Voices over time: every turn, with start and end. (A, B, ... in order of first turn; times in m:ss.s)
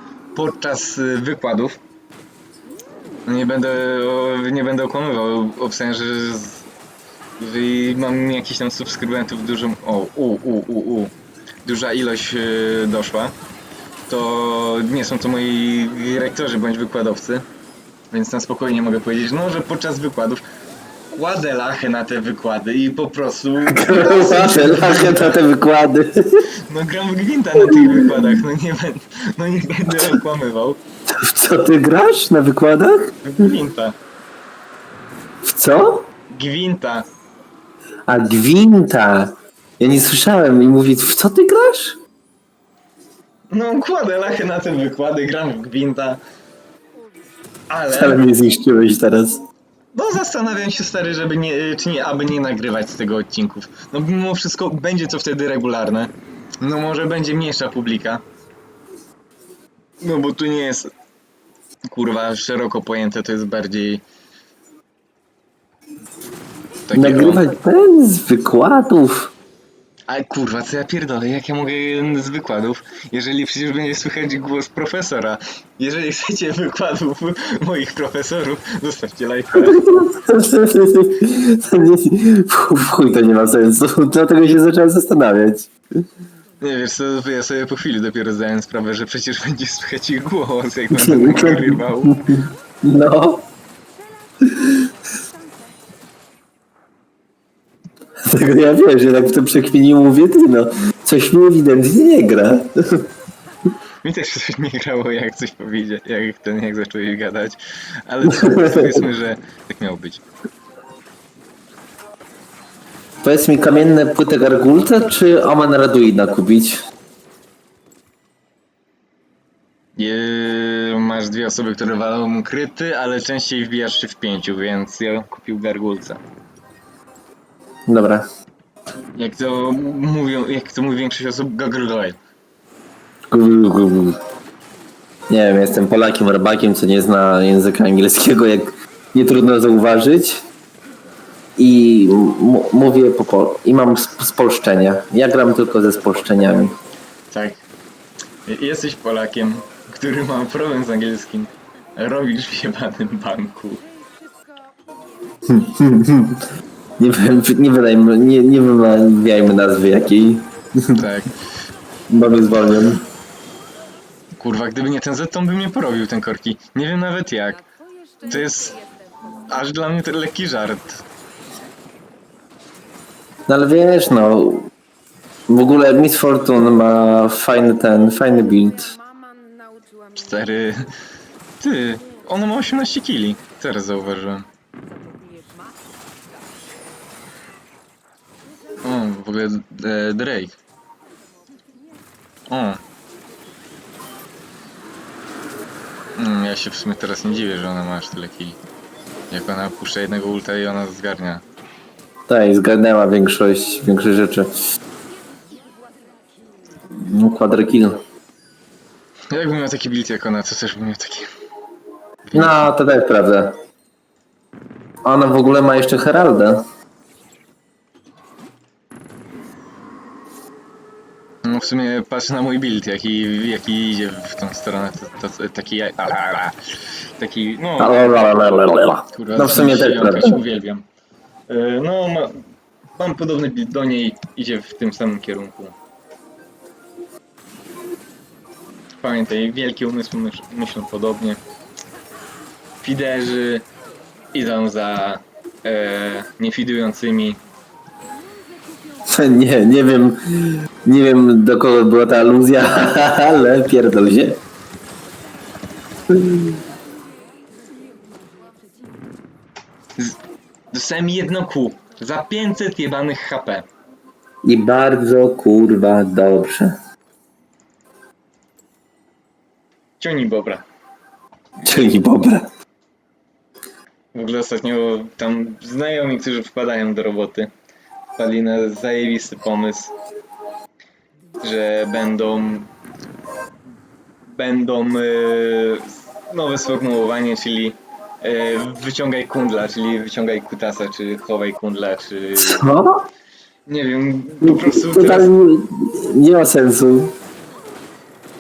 0:00.3-0:01.8 A
0:03.3-0:06.7 A
0:07.4-0:11.1 A
0:11.6-0:13.3 A
0:14.1-0:17.4 A
0:18.1-0:20.4 A
0:21.1-0:25.4 A
0:23.6-0:26.5 B
0:26.7-0:30.8 A
0:27.6-0:28.4 B
0:31.1-0:33.2 B
0:33.2-0:34.0 A
0:35.4-0:36.1 B
0:36.3-0:37.1 A
0:38.1-0:42.0 B
0:43.5-0:46.2 A
0:47.7-0:48.2 A
0:47.9-0:49.4 B
0:49.9-0:58.2 A
1:00.0-1:00.9 A
1:01.9-1:04.0 A
1:06.9-1:07.5 A
1:06.9-1:09.3 B
1:10.1-1:19.8 A
1:19.6-1:25.7 B
1:26.6-1:32.3 A
1:30.9-1:33.5 B
1:34.4-1:34.9 B
1:38.2-1:43.1 B
1:44.0-1:50.2 A
1:48.3-1:49.0 B
1:53.2-1:56.8 B
2:00.0-2:06.2 A
2:07.9-2:08.3 B
2:09.2-2:12.2 A
2:13.3-2:14.2 B
2:15.3-2:20.4 B
2:21.6-2:26.8 B
2:27.3-2:27.6 A
2:28.5-2:33.8 A
2:35.4-2:36.5 B
2:37.0-2:41.0 B
2:40.9-2:41.3 A
2:42.1-2:43.0 B
2:44.4-2:47.6 A
2:48.2-2:48.8 A
2:49.5-2:51.0 A
2:53.5-2:54.7 B
2:55.5-2:59.0 B
3:00.2-3:00.9 A
3:01.6-3:04.5 A
3:08.8-3:10.6 A
3:12.5-3:12.8 A
3:16.2-3:18.6 A
3:19.3-3:21.4 A
3:22.3-3:24.5 B
3:26.9-3:28.0 B
3:29.3-3:31.3 A
3:32.2-3:32.7 A
3:32.3-3:33.6 B
3:35.0-3:36.6 B
3:41.4-3:46.6 A
3:47.2-3:48.5 A
3:47.8-3:50.4 B
3:49.1-3:50.8 A
3:51.5-3:52.4 A
3:53.0-3:55.8 A
3:59.0-4:01.4 A
4:02.8-4:03.7 A
4:04.3-4:07.4 A
4:09.1-4:14.4 B
4:16.1-4:16.6 B
4:20.7-4:23.7 A
4:24.4-4:26.8 B
4:30.0-4:30.6 A
4:31.6-4:32.5 B
4:34.1-4:37.5 A
4:38.2-4:39.9 A
4:41.4-4:42.7 A
4:44.3-4:52.6 A
4:52.4-4:53.1 B
4:53.7-4:55.3 A
4:54.4-4:57.2 B